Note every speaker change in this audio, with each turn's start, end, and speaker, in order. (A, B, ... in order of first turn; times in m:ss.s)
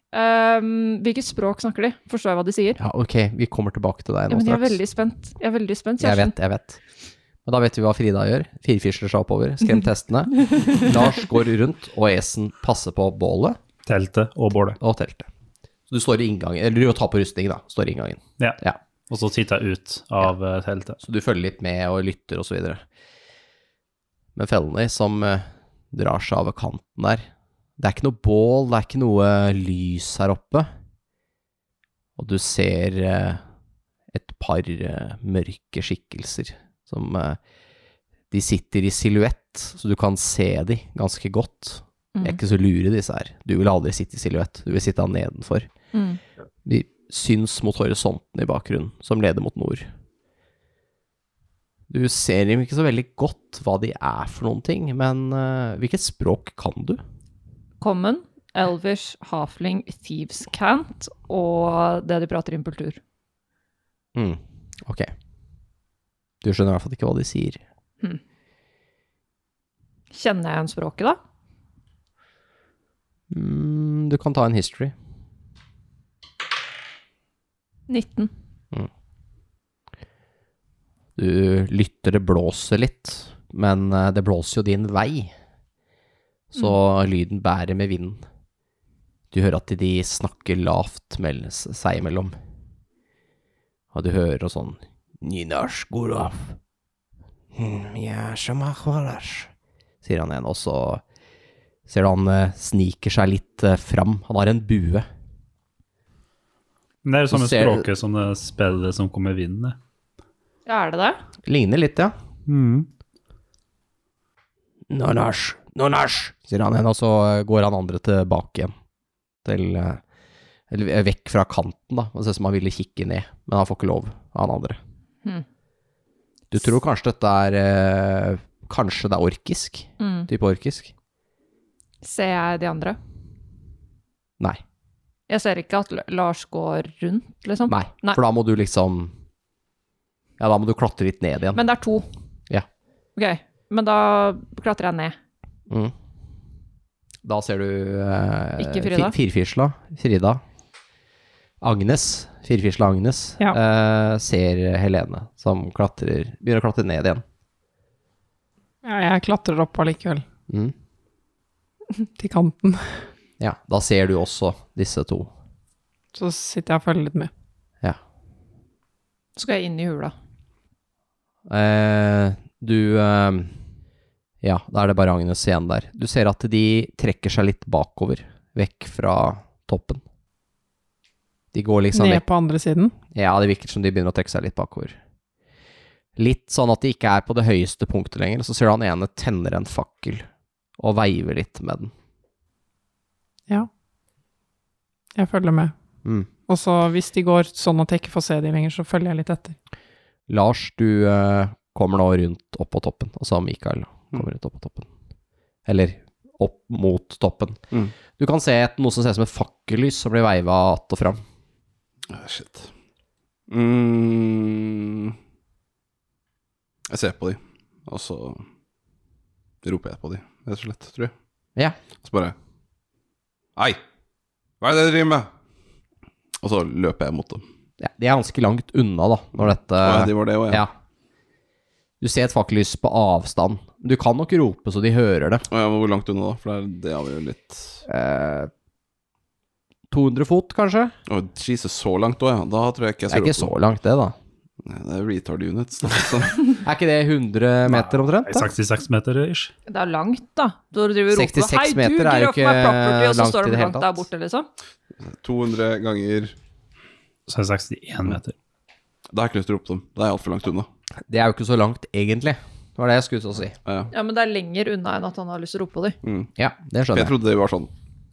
0:00.1-0:02.8 A
0:02.8-0:04.8 B
0:04.3-0:06.3 A
0:06.0-0:06.8 B
0:07.4-0:13.6 B
0:13.9-0:14.8 C
0:14.8-0:15.3 B
0:15.9-0:18.8 B
0:18.4-0:21.0 C
0:21.0-0:22.8 B
0:24.4-0:27.3 B
0:27.8-0:30.7 B
0:32.2-0:33.4 B
0:34.1-0:37.4 B
0:38.3-0:45.7 B
0:45.9-0:46.2 A
0:46.6-0:49.9 B
0:51.9-0:57.0 B
0:57.8-1:03.0 A
1:04.2-1:05.1 B
1:06.4-1:07.6 B
1:10.1-1:11.2 A
1:13.3-1:14.9 B
1:17.9-1:18.3 A
1:21.2-1:25.3 B
1:26.5-1:28.2 B
1:29.3-1:32.4 B
1:33.9-1:36.6 B
1:37.6-1:39.5 B
1:40.0-1:41.0 B
1:41.9-1:45.1 B
1:47.0-1:49.8 C
1:47.3-1:47.9 B
1:50.7-1:51.2 A
1:51.5-1:52.2 B
1:52.5-1:52.9 C
1:54.9-1:58.7 B
1:59.4-2:00.0 B
2:00.7-2:04.8 B
2:06.5-2:10.9 B
2:10.0-2:10.3 A
2:12.0-2:13.0 A
2:15.3-2:18.2 A
2:17.7-2:19.1 B
2:20.4-2:21.6 B
2:21.6-2:22.1 A
2:23.2-2:25.2 A
2:27.2-2:30.4 B
2:28.6-2:29.1 A
2:31.6-2:37.2 B
2:38.8-2:40.2 D
2:40.5-2:40.7 B
2:42.2-2:43.0 D
2:43.4-2:45.3 B
2:46.1-2:47.3 D
2:49.4-2:50.1 A
2:51.5-2:53.6 B
2:54.4-3:00.0 B
3:01.5-3:02.2 B
3:01.9-3:02.9 D
3:03.1-3:05.0 B
3:06.2-3:10.3 B
3:10.8-3:11.9 B
3:15.2-3:15.7 D
3:16.5-3:19.6 D
3:20.3-3:24.9 B
3:25.7-3:27.6 B
3:28.2-3:31.2 B
3:32.1-3:32.7 E
3:33.5-3:35.2 E
3:36.9-3:38.4 E
3:39.6-3:41.1 E
3:42.0-3:42.4 E
3:44.6-3:45.3 E
3:46.4-3:47.4 E
3:47.8-3:50.7 B
3:49.8-3:50.6 E
3:52.0-3:55.5 B
3:55.5-3:57.8 E
3:57.9-3:58.5 B
3:59.9-4:00.9 B
4:01.1-4:03.5 E
4:03.1-4:04.2 B
4:04.6-4:06.4 E
4:06.6-4:08.5 B
4:07.7-4:09.5 C
4:09.7-4:14.5 A
4:11.1-4:14.1 B
4:15.0-4:16.4 E
4:17.3-4:18.4 C
4:19.1-4:20.7 E
4:21.1-4:23.6 B
4:23.6-4:23.9 E
4:23.9-4:26.0 A
4:26.0-4:26.3 E
4:26.4-4:27.2 B
4:26.9-4:27.7 E